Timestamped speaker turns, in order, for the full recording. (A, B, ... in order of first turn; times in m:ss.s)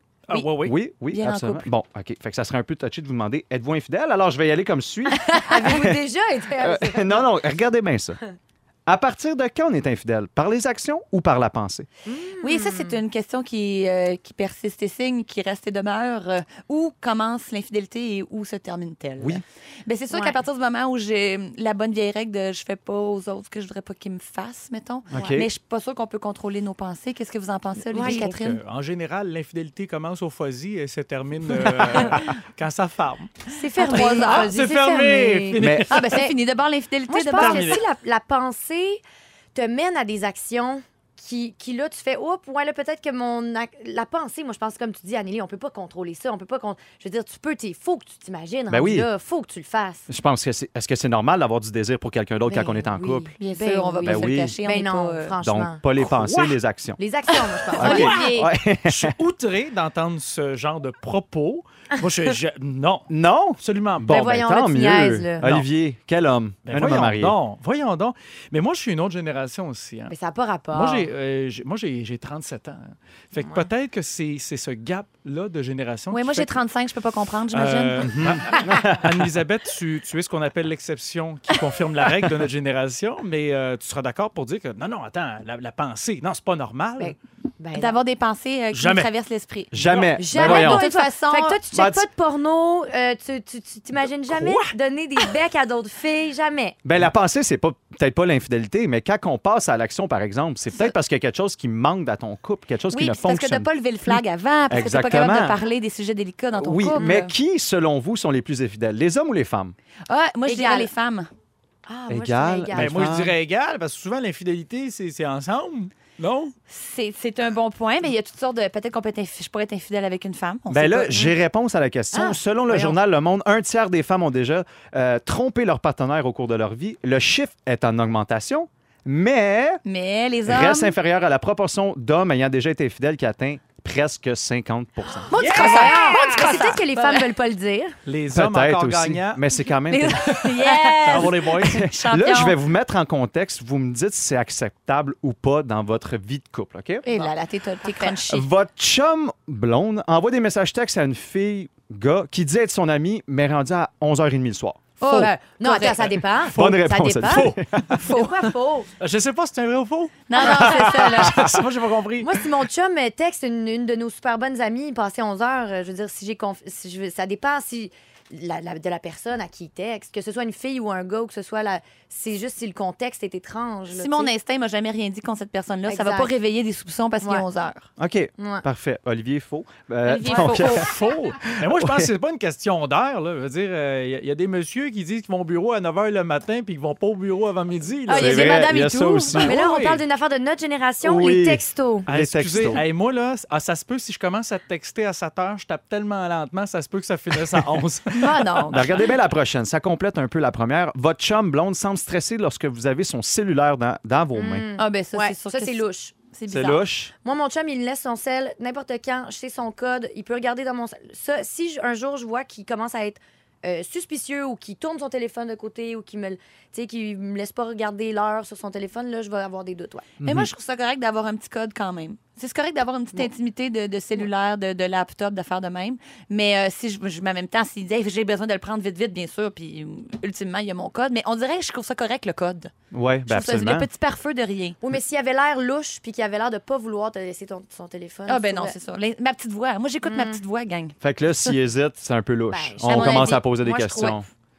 0:00.3-0:00.8 A
0:00.6-0:06.0 B
0:01.1-0:01.7 C
0:05.2-0:07.3 D
0:06.6-0:08.2 B
0:08.9-0:11.9 B
0:12.1-0:13.0 D
0:12.4-0:28.6 C
0:20.1-0:20.4 D
0:25.1-0:25.5 B
0:27.9-0:33.3 A
0:27.9-0:28.2 D
0:33.5-0:34.5 C
0:33.5-0:36.4 D
0:34.0-0:36.2 A
0:35.6-0:35.9 B
0:35.9-0:37.8 C
0:37.1-0:39.0 D
0:37.4-0:37.8 A
0:39.5-0:50.1 D
0:48.7-0:49.1 B
0:50.1-0:53.3 B
0:52.5-0:55.8 D
0:53.4-0:55.4 C
0:54.0-0:54.6 B
0:55.4-0:57.0 B
0:56.0-0:56.5 A
0:57.0-0:58.5 D
0:57.7-0:58.5 C
0:57.8-0:59.2 B
0:57.8-1:04.2 A
1:03.1-1:07.4 B
1:04.1-1:05.4 D
1:05.4-1:05.7 A
1:06.7-1:10.2 A
1:10.1-1:11.1 D
1:10.7-1:16.6 A
1:13.4-1:13.7 D
1:16.1-1:18.1 C
1:17.5-1:27.2 A
1:18.1-1:19.3 B
1:27.0-1:28.0 D
1:27.7-1:29.7 C
1:28.7-1:29.1 A
1:29.7-1:30.9 B
1:29.7-1:30.2 A
1:30.2-1:36.8 D
1:30.3-1:31.6 C
1:31.7-1:32.1 B
1:34.3-1:34.7 A
1:36.8-1:45.6 B
1:42.9-1:47.3 C
1:46.6-1:49.8 B
1:50.1-1:51.3 C
1:50.5-1:50.9 D
1:51.9-1:53.2 D
1:52.1-1:53.4 B
1:52.7-1:56.5 A
1:56.7-2:01.2 C
2:00.7-2:09.8 B
2:02.1-2:03.0 D
2:09.8-2:10.9 C
2:10.5-2:15.4 B
2:15.3-2:18.0 D
2:15.3-2:17.3 C
2:15.3-2:16.6 A
2:18.1-2:19.5 A
2:18.3-2:20.4 B
2:19.9-2:22.6 C
2:20.6-2:21.9 A
2:21.6-2:27.0 B
2:27.0-2:28.5 C
2:27.8-2:28.2 D
2:28.3-2:35.3 B
2:35.0-2:36.1 C
2:35.0-2:38.9 D
2:36.1-2:38.0 B
2:37.2-2:37.6 A
2:37.9-2:38.4 C
2:39.0-2:42.5 A
2:40.3-2:41.4 C
2:40.4-2:41.6 D
2:42.2-2:54.3 D
2:53.9-2:57.9 C
2:55.9-2:56.3 D
2:58.0-3:00.9 B
2:58.4-2:58.6 D
3:00.0-3:00.8 C
3:00.3-3:00.8 D
3:00.7-3:08.7 A
3:01.5-3:02.1 B
3:08.1-3:12.1 D
3:08.1-3:09.6 B
3:09.3-3:10.0 A
3:11.0-3:12.8 B
3:12.1-3:18.5 A
3:17.4-3:17.7 B
3:18.1-3:19.1 D
3:18.7-3:24.7 B
3:24.3-3:26.2 D
3:24.8-3:26.8 C
3:26.5-3:27.1 B
3:27.2-3:40.1 D
3:40.2-3:40.5 B
3:40.2-3:52.7 C
3:52.9-3:53.9 B
3:53.3-3:54.8 C
3:54.8-3:58.8 D
3:58.3-4:01.0 C
4:00.1-4:00.4 D
4:01.0-4:04.3 B
4:02.5-4:03.4 D
4:02.8-4:04.2 C